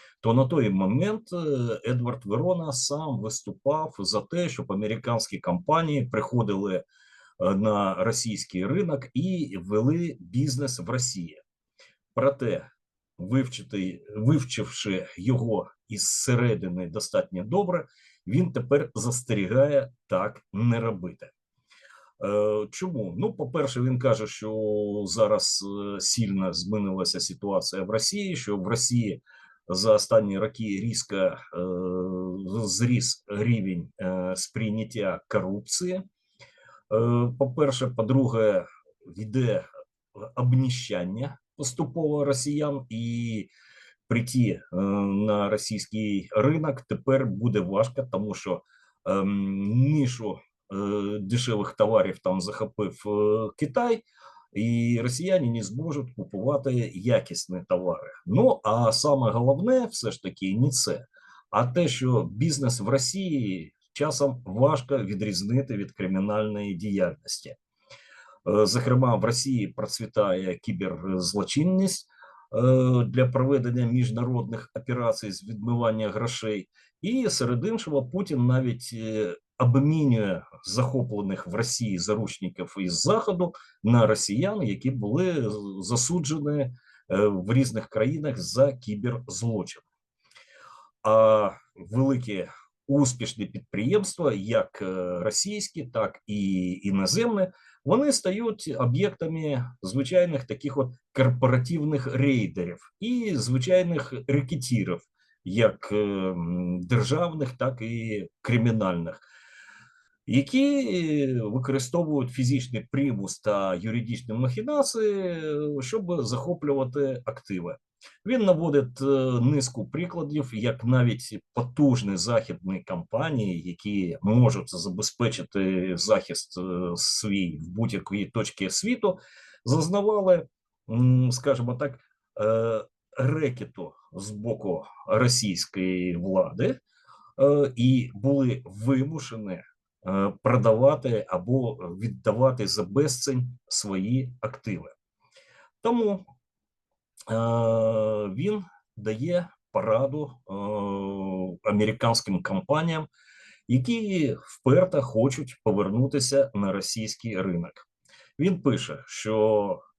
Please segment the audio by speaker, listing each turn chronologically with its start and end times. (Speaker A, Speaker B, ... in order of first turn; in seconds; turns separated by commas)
Speaker A: 0.2-6.8, Speaker A: 7.4-11.4, Speaker A: 12.1-21.3, Speaker A: 22.2-36.0, Speaker A: 36.9-43.5, Speaker A: 44.1-67.5, Speaker A: 68.4-89.9, Speaker A: 91.0-109.2, Speaker A: 110.2-136.8, Speaker A: 137.4-144.9, Speaker A: 145.8-146.2, Speaker A: 147.3-153.1, Speaker A: 153.7-157.8, Speaker A: 158.4-159.8